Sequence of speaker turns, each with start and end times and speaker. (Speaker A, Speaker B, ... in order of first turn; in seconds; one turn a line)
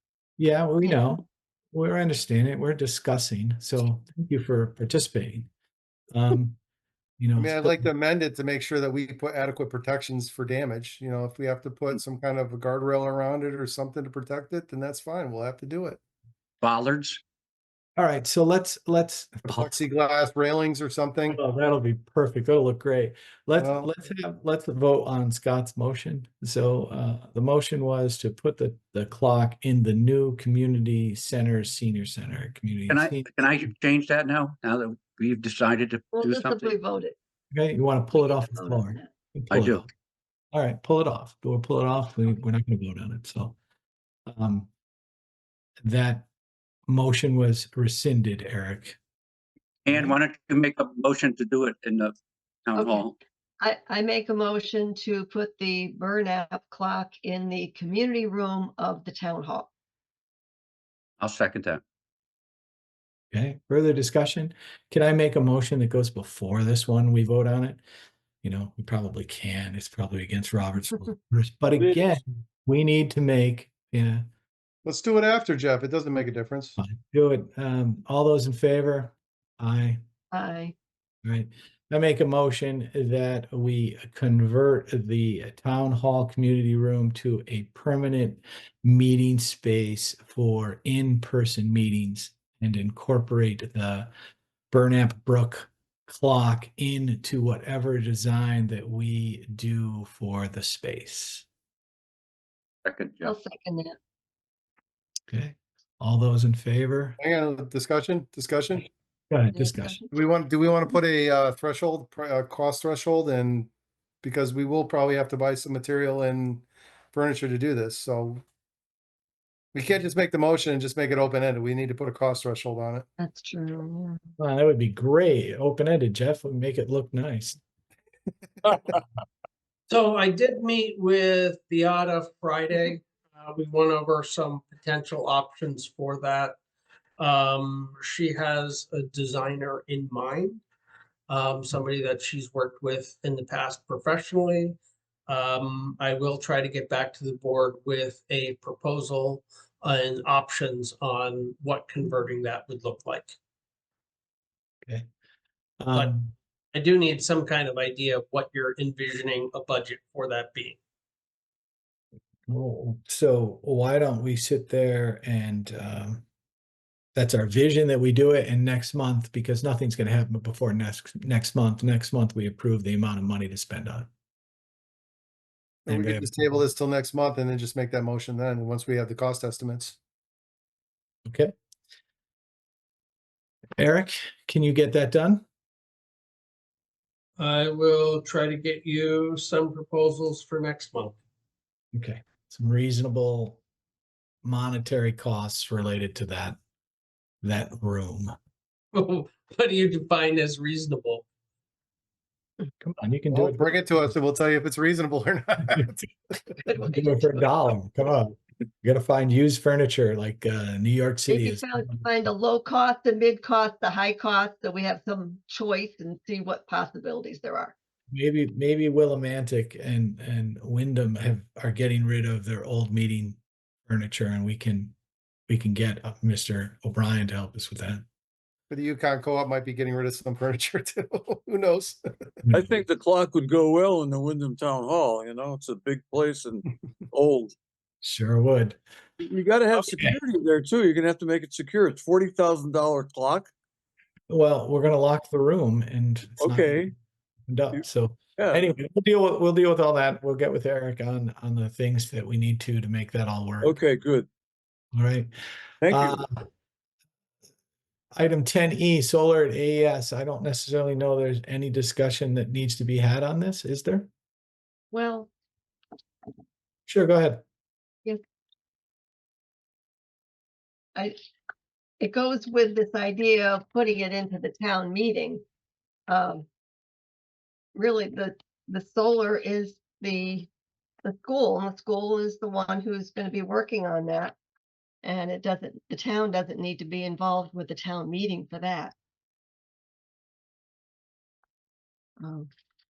Speaker A: 0.4-5.5
Speaker A: 6.1-6.6
Speaker A: 7.2-7.9
Speaker B: 7.4-16.0
Speaker C: 16.6-17.2
Speaker A: 18.0-19.8
Speaker B: 19.5-21.4
Speaker A: 21.3-33.3
Speaker B: 23.6-23.9
Speaker C: 32.9-36.8
Speaker D: 36.1-37.1
Speaker A: 37.5-39.9
Speaker D: 38.1-39.1
Speaker C: 39.5-39.9
Speaker A: 40.5-43.6
Speaker A: 44.3-44.7
Speaker A: 45.8-46.3
Speaker A: 46.9-49.0
Speaker C: 49.9-52.1
Speaker A: 49.9-50.2
Speaker C: 52.7-53.1
Speaker D: 52.8-53.1
Speaker D: 53.6-59.7
Speaker C: 61.2-61.8
Speaker A: 63.3-67.8
Speaker A: 68.4-74.3
Speaker B: 74.8-76.8
Speaker A: 76.8-80.0
Speaker D: 80.3-80.7
Speaker A: 81.2-94.1
Speaker A: 94.7-101.5
Speaker C: 102.8-103.3
Speaker D: 103.2-104.0
Speaker A: 105.3-107.2
Speaker B: 107.2-108.9
Speaker A: 109.3-110.0
Speaker D: 109.5-110.1
Speaker B: 110.1-113.7
Speaker B: 114.2-118.4
Speaker B: 119.7-123.1
Speaker D: 123.2-124.2
Speaker A: 124.4-127.6
Speaker E: 129.9-136.6
Speaker E: 137.2-140.6
Speaker E: 141.3-153.3
Speaker A: 155.8-156.3
Speaker E: 156.7-160.8
Speaker A: 162.5-166.2
Speaker A: 167.2-174.1
Speaker B: 175.9-180.0
Speaker A: 175.9-176.6
Speaker A: 181.3-181.5
Speaker A: 183.8-185.4
Speaker E: 187.4-191.1
Speaker A: 191.9-193.6
Speaker A: 194.4-196.6
Speaker A: 197.4-198.3
Speaker E: 198.9-201.2
Speaker A: 202.8-203.7
Speaker B: 203.3-205.9
Speaker D: 206.6-207.5
Speaker A: 206.9-212.0
Speaker D: 211.3-217.7
Speaker A: 218.1-224.9
Speaker A: 225.5-228.0
Speaker B: 228.7-232.0
Speaker A: 232.5-232.8
Speaker F: 232.5-237.5
Speaker A: 238.0-238.8
Speaker F: 239.2-243.5
Speaker A: 239.7-240.2
Speaker A: 244.3-246.9
Speaker F: 246.4-246.9
Speaker A: 247.5-253.8
Speaker F: 248.4-248.7
Speaker F: 253.6-254.3
Speaker A: 254.9-255.3
Speaker F: 255.8-256.2
Speaker A: 255.9-256.5
Speaker A: 258.1-264.1
Speaker D: 264.9-265.3
Speaker A: 266.9-267.4
Speaker D: 272.0-275.4
Speaker D: 276.1-276.5
Speaker D: 277.8-280.5
Speaker D: 281.1-284.4
Speaker D: 285.0-288.9
Speaker D: 292.2-292.5